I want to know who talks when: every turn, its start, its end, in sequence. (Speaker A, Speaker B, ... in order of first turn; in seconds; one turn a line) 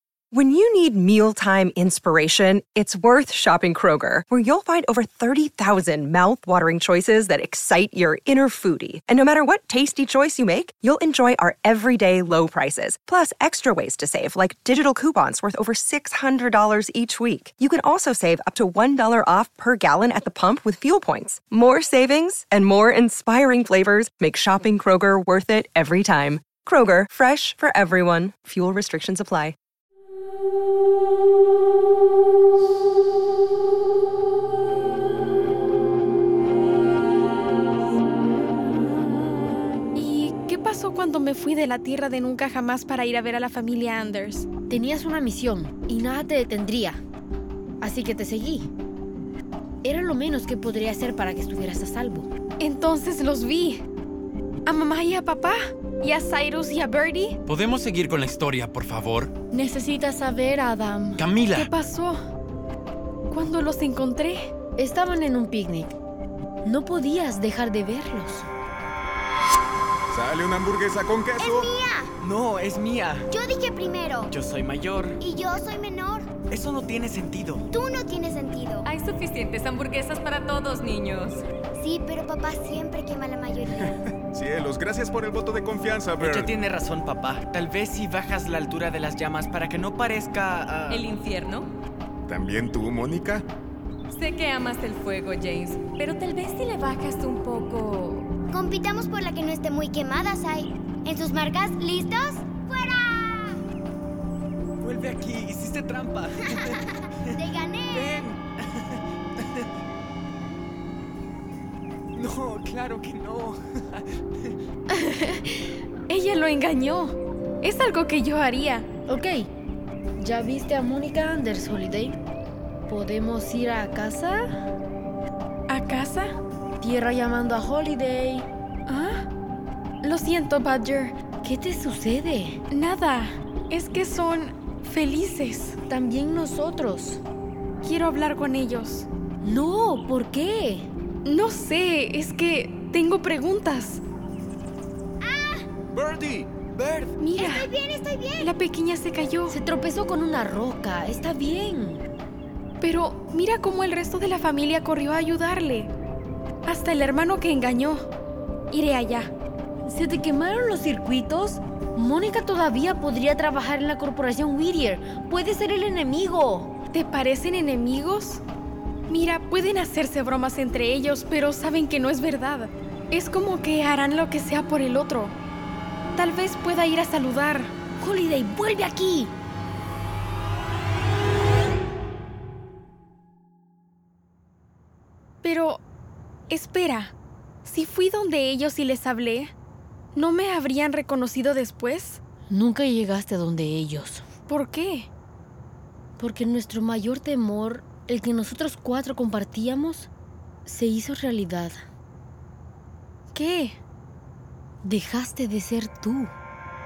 Speaker A: 0.3-29.6
Speaker B: 40.0-44.5
Speaker C: 44.7-47.0
Speaker C: 47.8-48.7
Speaker C: 49.8-52.3
Speaker B: 52.6-53.8
Speaker B: 54.7-57.4
Speaker D: 57.5-59.3
Speaker C: 59.5-61.2
Speaker D: 61.2-61.7
Speaker B: 61.5-62.2
Speaker B: 63.3-64.5
Speaker C: 64.8-65.9
Speaker C: 66.6-68.5
Speaker E: 70.1-71.7
Speaker F: 71.4-72.1
Speaker G: 72.2-73.3
Speaker F: 73.3-74.3
Speaker G: 74.3-75.2
Speaker F: 75.2-76.3
Speaker G: 76.5-77.7
Speaker F: 77.7-78.8
Speaker H: 78.8-81.4
Speaker F: 81.8-84.0
Speaker E: 84.3-86.6
Speaker G: 86.2-91.1
Speaker H: 90.9-91.7
Speaker E: 92.3-93.5
Speaker H: 94.1-98.3
Speaker F: 98.5-103.6
Speaker G: 104.8-106.8
Speaker G: 107.3-108.4
Speaker F: 107.3-108.2
Speaker G: 112.2-114.0
Speaker B: 115.0-115.5
Speaker B: 116.1-118.9
Speaker C: 119.1-119.5
Speaker C: 120.2-122.2
Speaker C: 122.9-124.4
Speaker B: 125.7-126.3
Speaker C: 126.8-128.5
Speaker B: 128.9-129.3
Speaker B: 130.0-131.2
Speaker C: 131.4-132.6
Speaker B: 132.7-135.8
Speaker C: 135.9-137.2
Speaker B: 137.8-139.1
Speaker C: 139.4-140.9
Speaker B: 141.3-144.0
Speaker F: 145.2-145.7
Speaker E: 145.9-147.1
Speaker B: 147.2-147.7
Speaker F: 147.4-148.5
Speaker B: 148.4-149.6
Speaker C: 149.5-152.1
Speaker B: 152.8-155.9
Speaker B: 156.7-158.1
Speaker B: 158.7-159.3
Speaker C: 159.8-166.8
Speaker B: 166.9-168.4
Speaker B: 169.1-175.4
Speaker B: 176.2-177.7
Speaker C: 178.0-179.3
Speaker B: 185.4-185.8
Speaker B: 186.5-189.5
Speaker B: 190.2-192.2
Speaker C: 192.5-194.2
Speaker B: 194.5-195.1
Speaker C: 196.2-200.1
Speaker C: 200.7-201.8
Speaker B: 203.3-203.8
Speaker C: 204.8-206.3